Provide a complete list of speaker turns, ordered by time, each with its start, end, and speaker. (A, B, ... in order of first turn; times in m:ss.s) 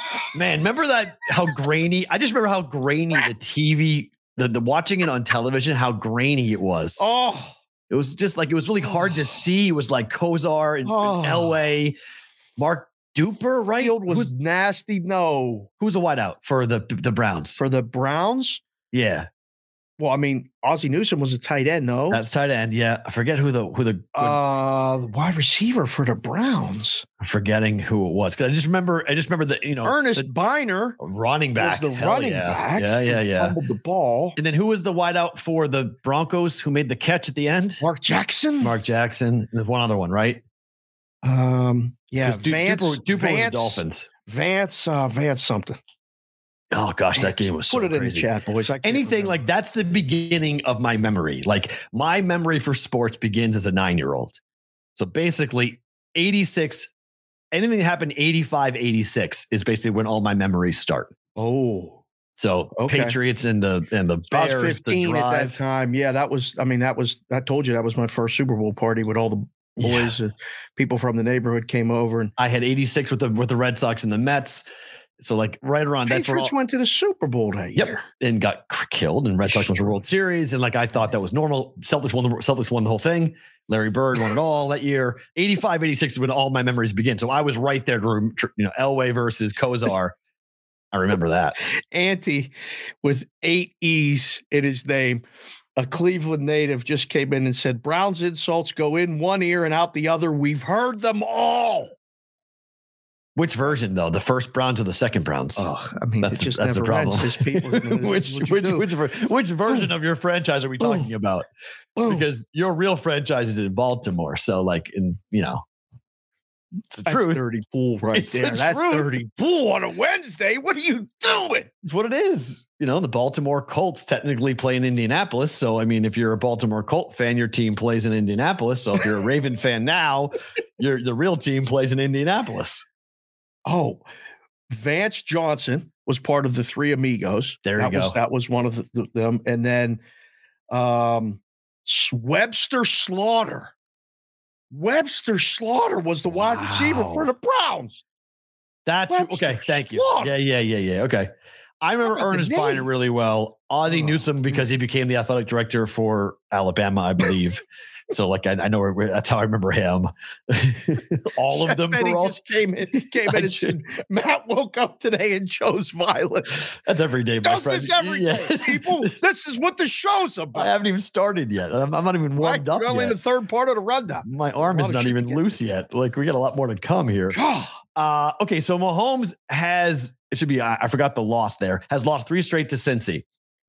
0:00.3-0:07.0 A
0:07.0-0:07.6 B
0:07.9-0:12.0 A
0:10.8-0:11.6 B
0:12.6-0:14.3 A
0:13.8-0:15.7 B
0:15.8-0:17.6 A
0:17.6-0:18.6 B
0:18.9-0:19.3 A
0:20.0-0:22.2 B
0:22.1-0:24.4 A
0:24.2-0:27.1 B
0:27.2-0:30.3 A
0:29.8-0:31.0 B
0:31.0-0:33.6 A
0:31.6-0:34.4 B
0:34.4-0:37.8 A
0:37.8-0:38.8 B
0:38.6-0:40.4 A
0:41.2-0:45.8 B
0:42.2-0:44.1 A
0:46.7-0:48.3 A
0:47.2-0:49.4 B
0:48.8-0:54.4 A
0:55.0-0:56.9 A
0:57.5-1:01.1 A
1:01.4-1:02.0 B
1:02.4-1:05.6 A
1:02.8-1:03.2 B
1:04.3-1:12.3 B
1:09.8-1:10.1 A
1:12.4-1:14.7 A
1:15.2-1:16.5 A
1:16.1-1:18.0 B
1:17.8-1:30.2 A
1:19.5-1:20.0 B
1:30.9-1:31.6 A
1:31.9-1:35.2 B
1:35.8-1:41.9 B
1:43.4-1:45.7 A
1:45.6-1:48.9 B
1:46.2-1:51.5 A
1:50.8-1:51.1 B
1:52.0-1:52.3 B
1:52.0-1:55.6 A
1:56.9-1:57.4 A
1:57.1-2:01.7 B
1:58.1-1:59.1 A
2:01.8-2:12.9 A
2:13.7-2:14.0 B
2:14.7-2:20.0 B
2:17.6-2:18.2 A
2:20.7-2:23.7 B
2:24.7-2:28.0 B
2:26.3-2:27.3 A
2:28.9-2:42.4 A
2:29.1-2:30.3 B
2:32.1-2:32.9 B
2:41.5-2:46.7 B
2:43.2-2:43.8 A
2:46.6-2:49.1 A
2:47.4-2:50.7 B
2:50.5-2:53.2 A
2:52.4-2:55.6 B
2:54.3-2:57.4 A
2:57.3-2:57.8 B
2:58.0-3:03.2 A